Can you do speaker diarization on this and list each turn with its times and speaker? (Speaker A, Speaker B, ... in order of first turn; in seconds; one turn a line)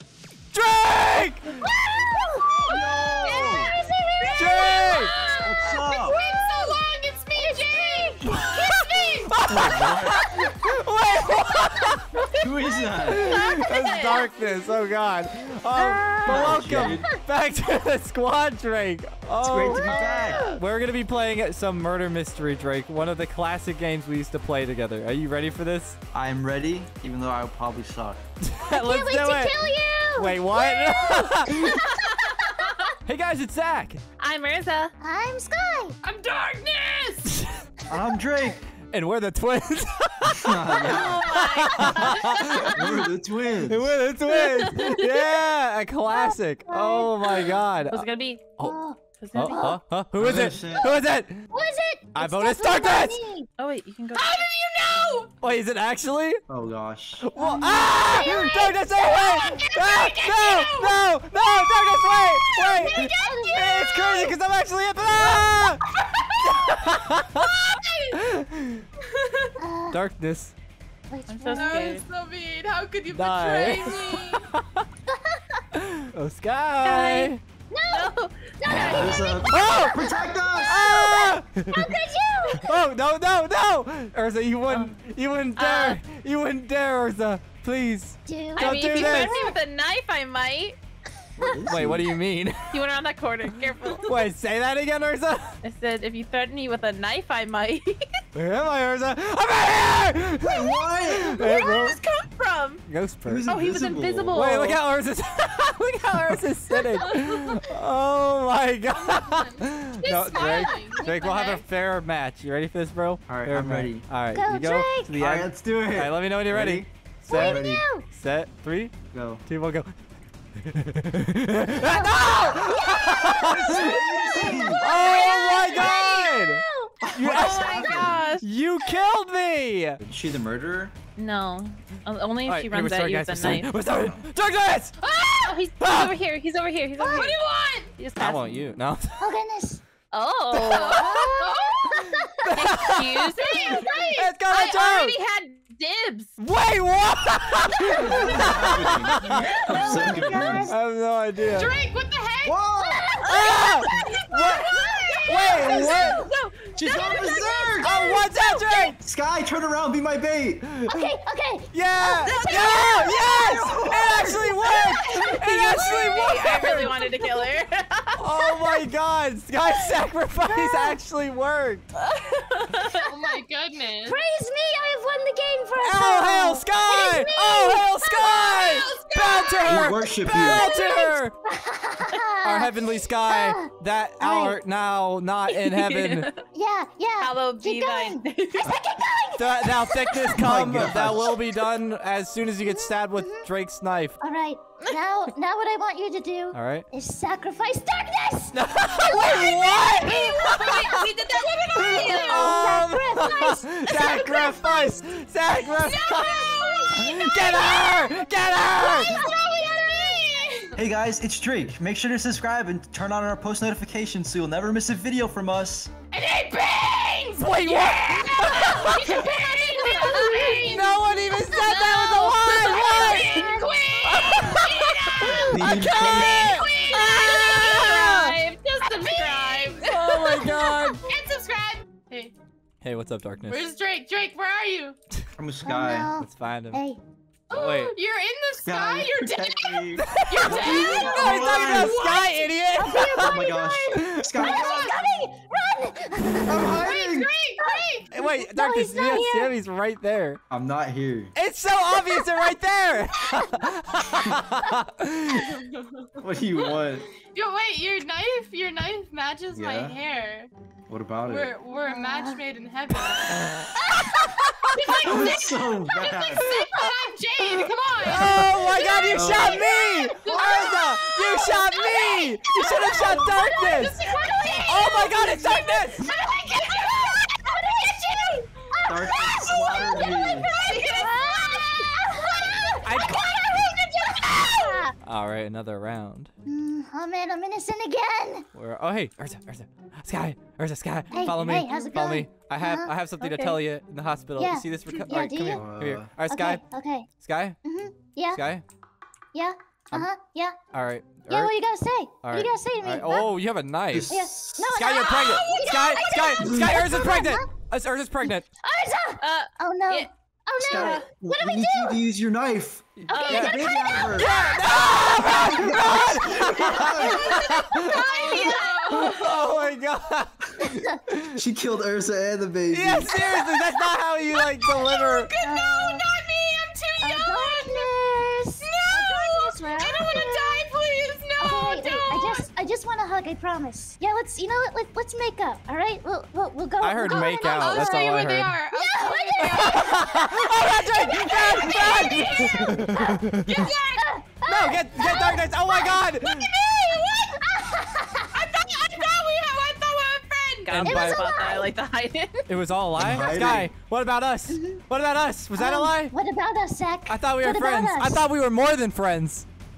Speaker A: 0.5-1.6
Speaker B: 1.5-9.0
Speaker C: 2.6-3.7
Speaker D: 4.2-5.1
Speaker A: 4.3-5.1
Speaker E: 4.9-5.5
Speaker C: 5.4-6.2
Speaker E: 6.0-9.3
Speaker A: 8.3-12.2
Speaker C: 9.4-10.3
Speaker C: 12.4-13.3
Speaker A: 13.0-26.0
Speaker B: 13.1-13.4
Speaker D: 13.2-14.3
Speaker B: 15.7-17.0
Speaker C: 16.2-17.1
Speaker C: 19.4-20.5
Speaker D: 19.9-20.6
Speaker C: 26.1-28.2
Speaker A: 28.4-31.8
Speaker B: 28.7-32.8
Speaker D: 32.1-32.7
Speaker A: 33.0-34.0
Speaker D: 34.2-34.9
Speaker B: 35.0-36.0
Speaker E: 36.0-37.4
Speaker C: 37.9-38.6
Speaker A: 38.9-40.5
Speaker C: 40.3-43.9
Speaker D: 40.8-42.8
Speaker A: 41.3-42.4
Speaker A: 43.7-48.0
Speaker D: 44.3-45.0
Speaker B: 46.1-47.5
Speaker D: 47.9-48.5
Speaker B: 48.6-49.8
Speaker D: 49.2-49.8
Speaker A: 49.3-51.4
Speaker C: 50.2-51.0
Speaker B: 51.5-53.5
Speaker A: 52.1-53.2
Speaker D: 53.6-54.4
Speaker E: 54.1-55.3
Speaker A: 55.4-56.4
Speaker C: 56.5-57.2
Speaker A: 57.2-68.8
Speaker B: 57.4-59.7
Speaker E: 59.4-64.3
Speaker B: 62.8-64.2
Speaker E: 65.1-65.6
Speaker E: 66.2-66.6
Speaker E: 67.3-68.2
Speaker E: 69.0-69.6
Speaker B: 69.6-70.0
Speaker A: 69.9-70.5
Speaker B: 71.1-71.9
Speaker D: 71.3-72.0
Speaker E: 71.5-74.5
Speaker A: 73.1-74.8
Speaker B: 75.1-75.6
Speaker A: 75.8-77.4
Speaker D: 76.8-77.3
Speaker B: 77.7-78.1
Speaker D: 77.9-79.3
Speaker A: 78.7-80.0
Speaker C: 78.7-80.8
Speaker B: 79.2-82.8
Speaker A: 80.6-82.0
Speaker A: 82.5-89.3
Speaker D: 84.7-85.0
Speaker D: 85.5-86.0
Speaker B: 88.2-89.6
Speaker D: 88.5-90.8
Speaker C: 91.4-92.1
Speaker A: 91.7-92.8
Speaker D: 92.7-94.3
Speaker A: 94.0-95.6
Speaker D: 95.6-98.2
Speaker A: 98.3-102.0
Speaker C: 100.4-101.5
Speaker D: 100.8-102.8
Speaker A: 102.8-103.5
Speaker C: 103.2-104.5
Speaker D: 103.5-104.8
Speaker A: 104.3-118.9
Speaker E: 107.0-107.6
Speaker E: 108.9-111.6
Speaker C: 113.3-114.1
Speaker B: 114.3-115.1
Speaker C: 115.1-117.8
Speaker B: 117.3-118.1
Speaker C: 119.1-119.4
Speaker A: 119.4-119.9
Speaker A: 120.6-123.9
Speaker B: 121.7-127.0
Speaker C: 123.3-124.8
Speaker A: 124.7-130.0
Speaker D: 125.5-126.0
Speaker C: 127.0-128.2
Speaker D: 127.3-128.4
Speaker C: 130.0-130.9
Speaker D: 131.2-133.7
Speaker A: 132.4-134.9
Speaker C: 133.8-134.2
Speaker E: 135.0-135.6
Speaker D: 135.4-137.4
Speaker A: 135.8-136.1
Speaker E: 137.0-137.9
Speaker D: 138.0-138.5
Speaker A: 138.2-139.3
Speaker B: 139.2-139.8
Speaker D: 140.1-141.2
Speaker A: 140.5-141.0
Speaker E: 140.7-142.2
Speaker B: 140.9-142.5
Speaker A: 141.9-143.1
Speaker D: 142.5-143.9
Speaker E: 143.3-144.3
Speaker B: 143.6-144.1
Speaker A: 143.6-145.2
Speaker D: 144.5-146.3
Speaker A: 146.4-149.4
Speaker C: 147.8-150.7
Speaker B: 148.1-148.6
Speaker B: 149.7-150.8
Speaker A: 150.2-151.7
Speaker E: 151.5-152.6
Speaker C: 152.4-153.1
Speaker B: 152.7-156.3
Speaker A: 153.2-154.7
Speaker D: 153.3-157.8
Speaker A: 155.2-157.1
Speaker C: 156.8-158.2
Speaker B: 157.3-158.9
Speaker A: 157.8-158.9
Speaker C: 159.0-160.6
Speaker A: 160.7-161.1
Speaker B: 160.9-165.4
Speaker A: 161.7-166.9
Speaker D: 162.3-163.1
Speaker C: 163.3-164.5
Speaker D: 165.2-168.2
Speaker A: 168.2-171.8
Speaker B: 170.5-171.0
Speaker D: 172.0-173.1
Speaker E: 173.1-174.2
Speaker B: 174.0-178.4
Speaker A: 175.8-181.3
Speaker D: 178.2-178.6
Speaker E: 178.2-179.6
Speaker C: 179.7-180.7
Speaker B: 180.3-184.6
Speaker A: 182.4-186.3
Speaker D: 185.5-186.4
Speaker B: 186.5-190.3
Speaker D: 187.2-188.7
Speaker A: 189.3-194.2
Speaker C: 190.3-191.4
Speaker B: 192.6-193.5
Speaker B: 194.2-205.0
Speaker A: 196.5-196.9
Speaker A: 198.5-201.0
Speaker D: 200.1-202.6
Speaker E: 200.2-202.2
Speaker A: 202.1-209.2
Speaker E: 205.8-207.8
Speaker B: 206.2-206.7
Speaker E: 208.8-210.8
Speaker B: 208.9-210.3
Speaker C: 210.8-215.9
Speaker E: 216.1-221.0
Speaker A: 217.4-219.2
Speaker D: 218.9-230.6
Speaker B: 219.9-220.3
Speaker A: 220.1-223.5
Speaker B: 222.7-223.7
Speaker E: 223.1-227.9
Speaker A: 224.1-224.7
Speaker C: 225.2-226.6
Speaker A: 225.5-228.3
Speaker E: 228.8-230.5
Speaker A: 229.8-231.0
Speaker B: 230.4-230.9
Speaker E: 231.1-232.3
Speaker A: 232.8-233.7
Speaker E: 233.5-235.0
Speaker C: 235.4-236.1
Speaker B: 235.6-237.0
Speaker A: 236.2-236.8
Speaker E: 237.5-242.6
Speaker A: 237.5-237.9
Speaker C: 238.6-242.0
Speaker A: 240.0-243.4
Speaker B: 240.6-241.1
Speaker B: 242.7-246.9
Speaker C: 243.0-244.9
Speaker A: 244.0-244.3
Speaker C: 246.5-247.3
Speaker E: 246.7-248.1
Speaker B: 247.6-249.6
Speaker A: 248.1-250.4
Speaker C: 250.5-251.3
Speaker A: 251.3-255.5
Speaker B: 251.8-252.3
Speaker E: 255.5-256.1
Speaker C: 256.2-257.1
Speaker E: 256.6-260.5
Speaker C: 259.5-259.9
Speaker C: 260.9-261.5
Speaker E: 261.2-263.4
Speaker B: 261.8-262.4
Speaker A: 263.3-264.7
Speaker E: 264.7-268.9
Speaker C: 265.0-266.5
Speaker B: 266.8-267.6
Speaker A: 268.1-274.0
Speaker C: 268.2-268.5
Speaker B: 268.5-284.9
Speaker C: 269.1-269.6
Speaker E: 270.2-270.9
Speaker A: 274.6-276.1
Speaker E: 276.4-277.2
Speaker C: 278.9-280.5
Speaker D: 280.5-281.7
Speaker A: 282.8-283.4
Speaker A: 285.0-286.3
Speaker B: 286.4-288.4
Speaker A: 288.5-296.6
Speaker B: 291.1-292.9
Speaker D: 293.2-293.6
Speaker B: 294.4-295.6
Speaker C: 295.5-296.1
Speaker B: 296.2-297.1
Speaker A: 297.1-297.6
Speaker B: 297.6-298.4
Speaker A: 298.3-298.6
Speaker B: 299.3-300.6
Speaker A: 300.7-308.4
Speaker B: 301.3-303.3
Speaker C: 303.9-304.7
Speaker B: 304.1-307.4
Speaker D: 305.3-305.9
Speaker B: 308.2-312.0
Speaker D: 309.2-310.1
Speaker C: 310.6-314.3
Speaker D: 310.6-311.1
Speaker A: 313.0-313.6
Speaker B: 313.1-318.9
Speaker D: 313.1-313.5
Speaker A: 314.1-318.4
Speaker C: 315.2-317.4
Speaker D: 317.1-319.1
Speaker E: 317.8-319.6
Speaker A: 318.9-321.3
Speaker B: 320.6-321.0
Speaker C: 321.4-323.1
Speaker A: 322.7-325.3
Speaker E: 324.3-327.9
Speaker B: 325.4-326.1
Speaker B: 327.0-330.7
Speaker E: 328.6-332.5
Speaker B: 331.4-338.1
Speaker A: 336.8-338.6
Speaker E: 337.4-339.8
Speaker B: 338.7-346.1
Speaker A: 339.4-343.6
Speaker E: 340.7-342.6
Speaker E: 343.3-344.1
Speaker A: 344.4-346.5
Speaker E: 346.2-350.7
Speaker B: 346.6-348.3
Speaker D: 350.6-352.4
Speaker A: 350.7-351.3
Speaker B: 350.8-351.7
Speaker A: 352.5-356.1
Speaker C: 352.9-353.7
Speaker B: 354.5-354.8
Speaker B: 355.6-358.2
Speaker A: 357.1-359.4